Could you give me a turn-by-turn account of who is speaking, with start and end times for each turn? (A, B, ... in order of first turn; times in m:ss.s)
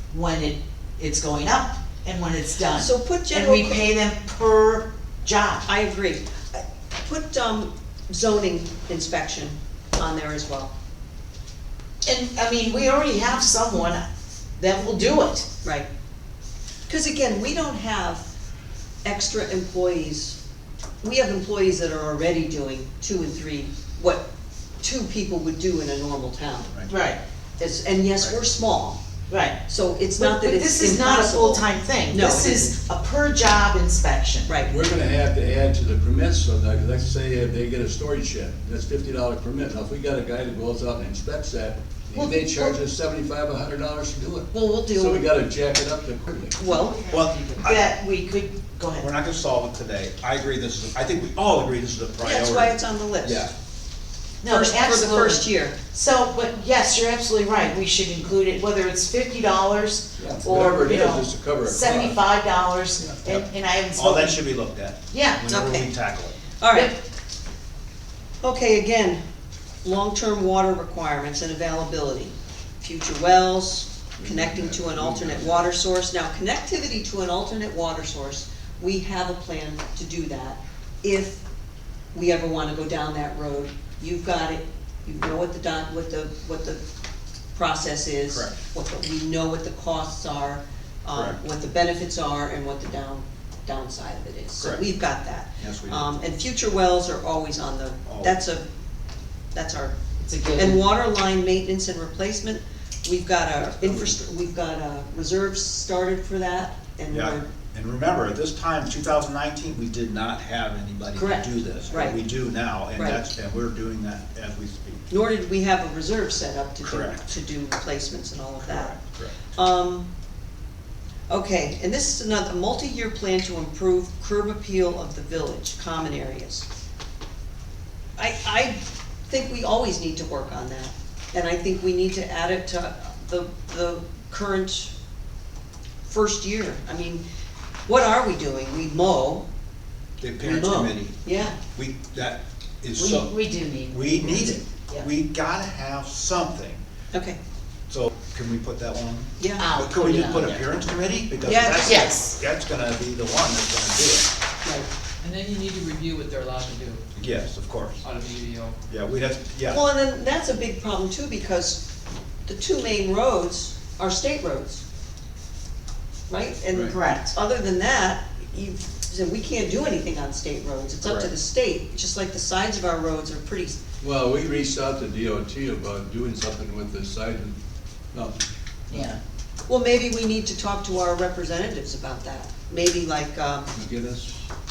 0:00.1-0:05.6 A
0:02.7-0:03.9 B
0:05.6-0:10.7 B
0:12.0-0:14.0 A
0:14.6-0:15.5 A
0:16.9-0:18.3 B
0:19.0-0:20.4 B
0:21.0-0:24.3 B
0:24.8-0:26.7 B
0:26.9-0:27.2 A
0:27.6-0:29.0 B
0:29.3-0:29.6 A
0:29.6-0:32.8 B
0:30.2-0:34.5 A
0:34.4-0:34.7 B
0:34.7-0:46.8 C
0:42.1-0:42.7 A
0:44.5-0:45.3 B
0:46.6-0:47.1 B
0:46.8-0:47.4 D
0:47.1-0:47.9 E
0:47.6-0:49.1 A
0:49.0-0:52.8 E
0:52.2-0:53.5 B
0:53.2-0:53.5 C
0:54.4-1:04.4 A
0:54.5-0:55.8 B
1:00.2-1:02.2 C
1:04.0-1:06.4 E
1:05.1-1:05.4 A
1:05.5-1:05.9 B
1:06.6-1:06.9 B
1:06.7-1:07.0 A
1:08.4-1:09.2 B
1:09.8-1:21.4 B
1:14.2-1:15.7 C
1:22.1-1:26.8 B
1:27.5-1:38.6 B
1:28.3-1:28.5 E
1:31.1-1:31.4 E
1:35.6-1:36.2 E
1:38.0-1:38.4 E
1:39.5-1:40.0 B
1:40.2-1:40.8 A
1:40.5-1:47.5 B
1:47.1-1:55.1 E
1:51.2-1:52.2 B
1:52.9-1:53.2 B
1:55.1-1:59.0 B
1:56.8-1:57.2 E
1:58.6-1:59.4 E
1:59.5-2:00.0 B
2:01.3-2:06.7 B
2:08.2-2:14.9 B
2:16.0-2:17.2 B
2:17.8-2:19.4 B
2:20.2-2:23.3 E
2:20.4-2:21.6 B
2:23.0-2:25.1 A
2:23.9-2:26.8 E
2:27.1-2:27.4 B
2:27.9-2:34.3 E
2:29.4-2:29.6 B
2:29.6-2:30.6 A
2:31.4-2:32.1 B
2:31.8-2:32.4 A
2:35.2-2:37.0 D
2:37.2-2:38.0 E
2:38.0-2:38.8 D
2:38.9-2:39.8 E
2:39.7-2:41.9 B
2:42.4-2:44.8 B
2:46.3-2:53.8 B
2:46.8-2:47.4 A
2:51.0-2:51.3 E
2:54.0-2:57.6 C
2:58.9-2:59.2 A
2:59.7-3:03.7 B
3:03.7-3:04.4 C